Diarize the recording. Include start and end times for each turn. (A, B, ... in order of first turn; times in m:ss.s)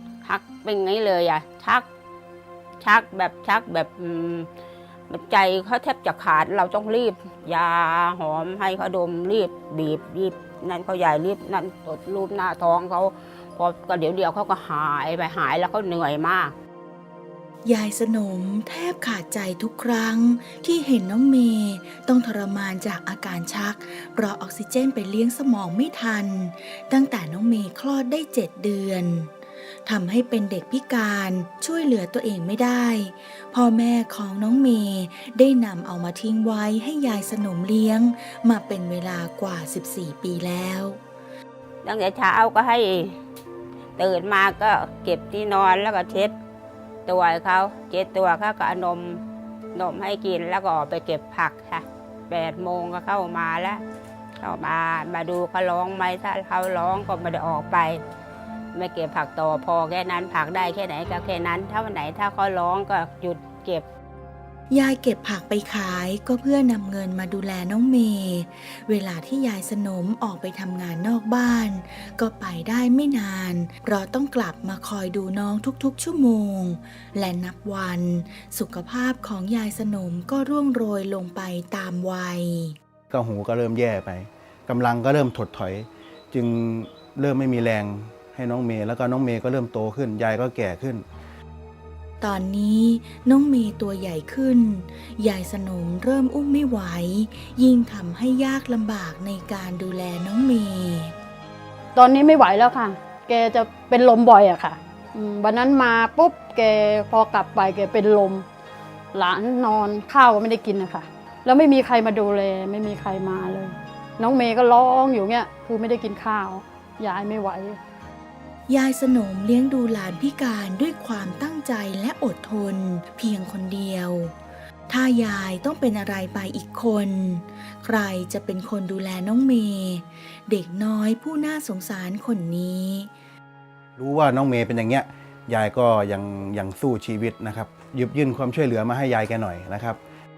0:00.2-0:01.8 A
0:02.8-0:04.5 A
0:05.1-0:16.5 A
0:17.6-0:29.3 B
0:29.8-0:41.0 B
0:41.8-0:43.1 A
0:44.0-0:46.3 A
0:47.0-0:49.2 A
0:49.7-0:53.8 A
0:54.4-0:58.0 A
0:58.7-1:03.8 A
1:04.7-1:22.8 B
1:23.1-1:31.0 C
1:32.2-1:41.1 B
1:41.9-1:48.4 D
1:49.1-1:57.8 D
1:58.7-2:04.3 B
2:04.9-2:13.1 B
2:14.0-2:20.0 C